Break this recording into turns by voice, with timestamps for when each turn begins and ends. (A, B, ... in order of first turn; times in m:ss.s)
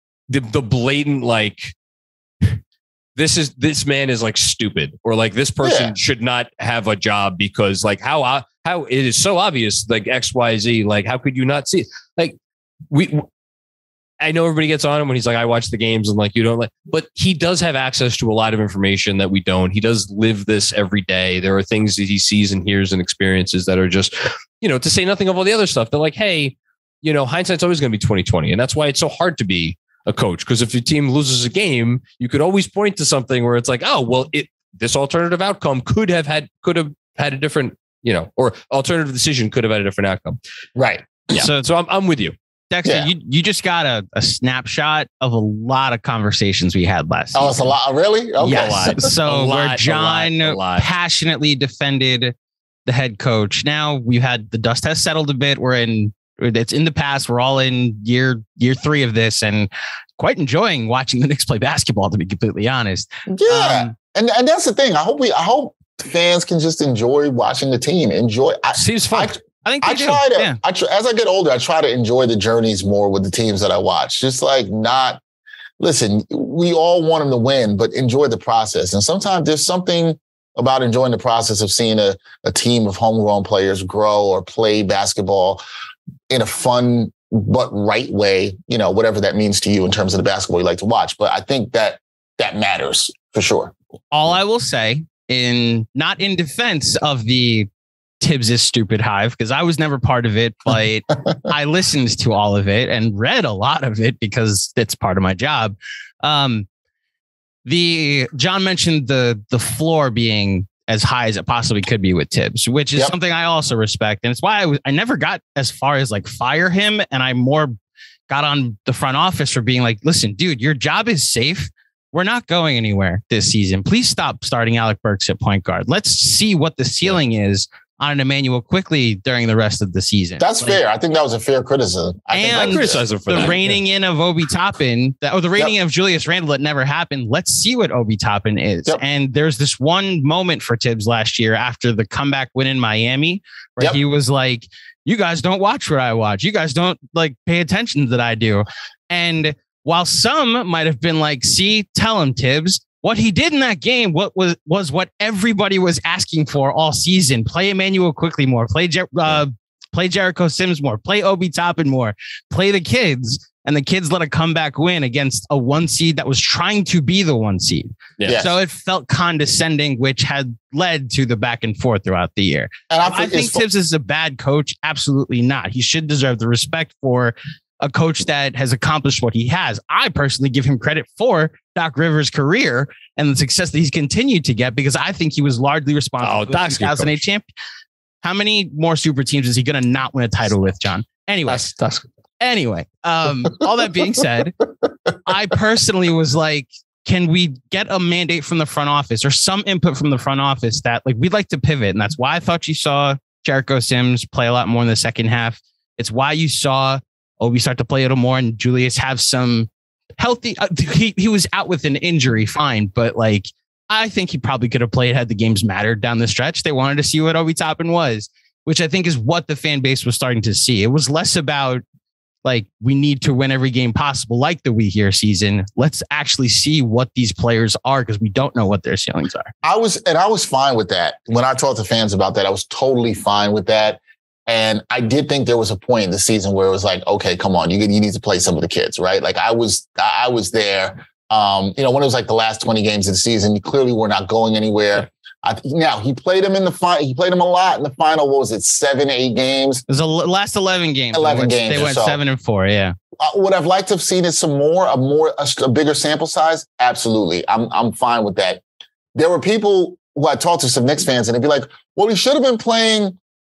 0:00.3-0:01.7 A
0:03.2-0:12.4 A
0:05.6-0:05.9 B
0:12.9-0:13.3 A
0:14.2-0:40.4 A
0:40.8-0:41.4 B
0:41.3-0:42.4 A
0:41.4-0:41.6 C
0:42.7-0:47.6 C
0:47.3-0:49.0 B
0:48.4-0:50.9 A
0:48.4-0:52.3 C
0:52.8-1:03.9 C
1:03.3-1:15.2 B
1:08.7-1:09.4 A
1:09.6-1:10.6 C
1:15.8-1:25.6 B
1:26.3-1:33.7 B
1:34.1-1:37.7 C
1:38.2-1:46.6 C
1:47.6-1:57.7 C
1:58.3-2:10.8 C
2:10.4-2:13.0 B
2:12.3-3:07.5 C
2:12.5-2:13.8 A
2:48.3-2:48.5 B
2:52.9-2:53.6 B
3:06.2-3:07.2 A
3:08.2-3:11.6 C
3:11.5-3:12.0 A
3:12.4-3:14.6 C
3:15.2-3:41.8 C
3:42.4-3:49.5 C
3:49.6-4:09.8 B
4:09.9-4:13.0 C
4:11.1-4:12.2 B
4:13.2-4:18.6 B
4:19.1-4:23.2 B